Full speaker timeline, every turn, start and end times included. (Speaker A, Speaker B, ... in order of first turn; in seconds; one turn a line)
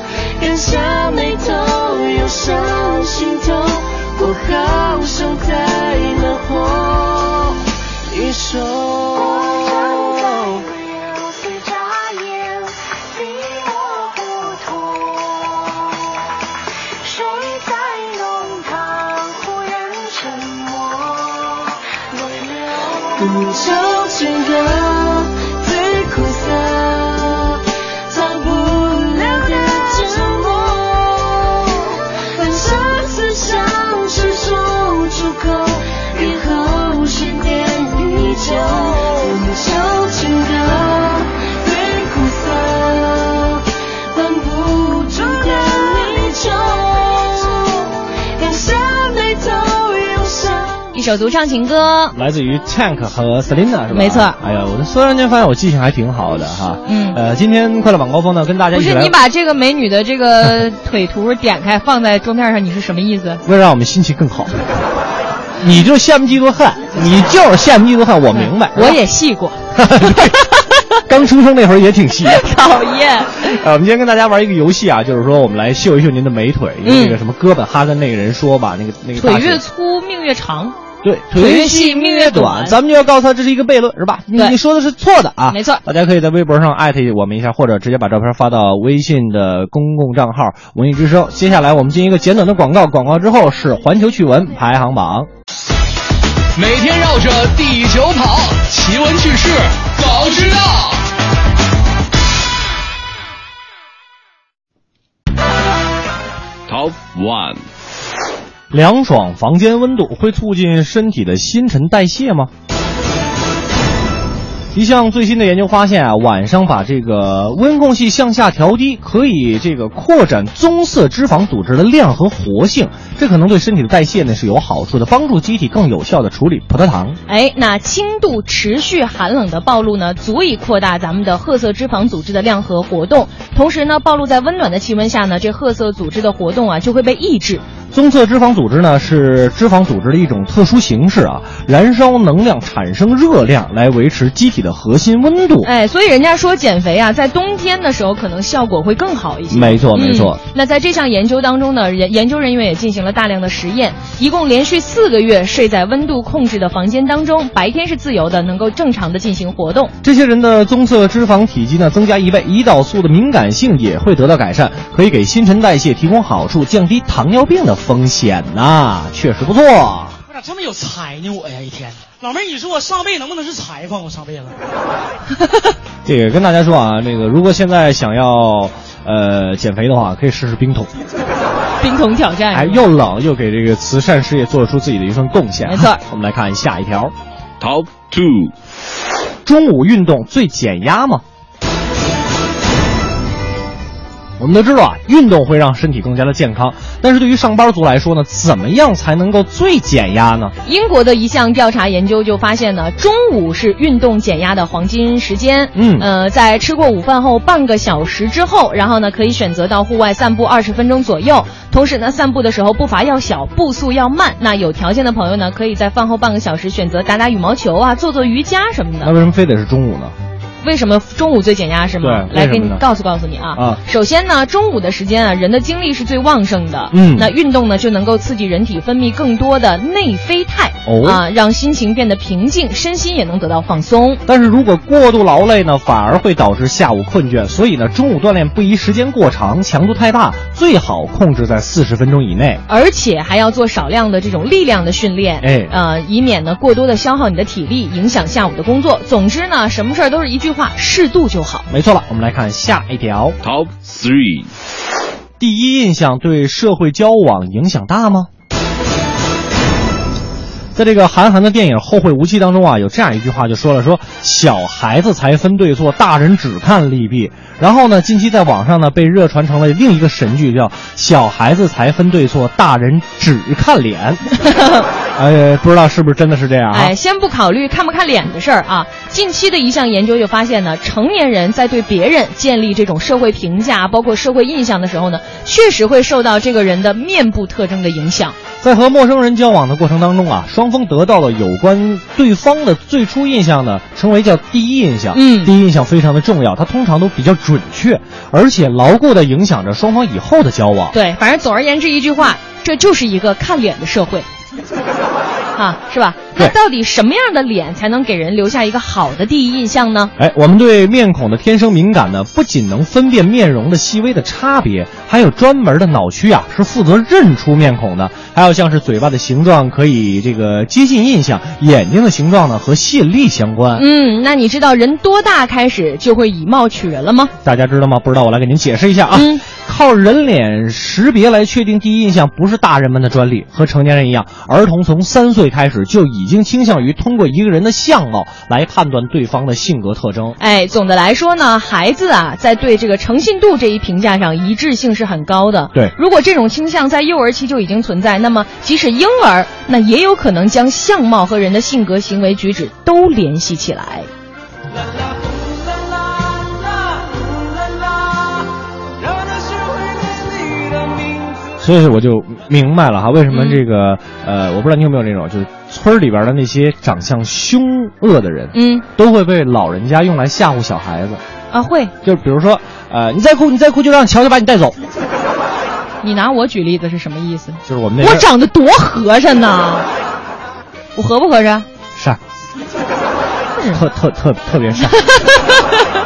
Speaker A: 0.4-10.7
Speaker B: 9.7-15.3
Speaker B: 17.0-21.4
Speaker B: 22.1-23.1
Speaker A: 23.1-25.2
Speaker B: 25.6-26.5
Speaker A: 25.8-27.2
Speaker A: 28.2-31.2
Speaker B: 29.1-30.6
Speaker B: 32.3-35.3
Speaker A: 34.3-35.6
Speaker B: 36.1-39.0
Speaker A: 36.2-37.0
Speaker A: 37.8-43.6
Speaker B: 39.6-40.4
Speaker A: 44.1-47.4
Speaker B: 45.1-47.6
Speaker B: 48.4-49.7
Speaker A: 49.6-50.5
Speaker C: 50.9-52.1
Speaker D: 52.1-59.1
Speaker C: 53.9-54.4
Speaker C: 56.9-57.2
Speaker C: 58.7-63.4
Speaker D: 63.4-64.6
Speaker D: 65.6-69.0
Speaker C: 68.3-69.6
Speaker D: 69.8-70.4
Speaker D: 71.1-72.4
Speaker C: 72.3-73.5
Speaker D: 73.4-79.6
Speaker C: 76.8-77.2
Speaker C: 79.2-80.7
Speaker D: 81.0-95.3
Speaker C: 81.4-82.8
Speaker C: 85.5-85.8
Speaker E: 96.5-101.0
Speaker F: 106.7-107.6
Speaker D: 108.7-112.5
Speaker D: 114.7-127.2
Speaker C: 127.3-137.6
Speaker D: 137.9-145.7
Speaker C: 145.6-159.9
Speaker D: 149.5-150.4
Speaker D: 160.0-170.2
Speaker G: 170.3-174.5
Speaker D: 176.0-180.9
Speaker C: 181.8-182.8
Speaker D: 182.5-187.1
Speaker C: 185.7-186.0
Speaker F: 187.6-188.5
Speaker D: 189.4-191.2
Speaker D: 194.4-200.5
Speaker C: 200.6-219.1
Speaker D: 205.7-206.1
Speaker D: 219.0-220.1
Speaker C: 220.6-234.2
Speaker D: 222.0-222.8
Speaker D: 226.9-227.3
Speaker D: 230.8-231.2
Speaker D: 234.2-242.6
Speaker C: 242.7-251.7
Speaker D: 245.4-245.7
Speaker D: 251.7-253.3
Speaker F: 253.4-254.5
Speaker D: 255.4-258.3
Speaker D: 260.7-274.2
Speaker C: 274.4-274.8
Speaker D: 275.1-276.9
Speaker C: 276.7-288.4
Speaker D: 288.6-300.9
Speaker C: 295.1-295.5
Speaker C: 300.9-304.2
Speaker C: 305.6-310.1
Speaker D: 310.2-323.9
Speaker C: 323.8-327.3
Speaker D: 327.4-340.4
Speaker C: 329.1-329.4
Speaker C: 340.4-354.1
Speaker D: 361.6-371.2
Speaker C: 363.3-363.6
Speaker C: 368.5-368.8
Speaker C: 371.5-371.9
Speaker D: 372.0-374.8
Speaker C: 376.0-379.9
Speaker D: 377.6-378.2
Speaker C: 380.9-381.6
Speaker D: 383.7-385.0
Speaker C: 384.9-385.9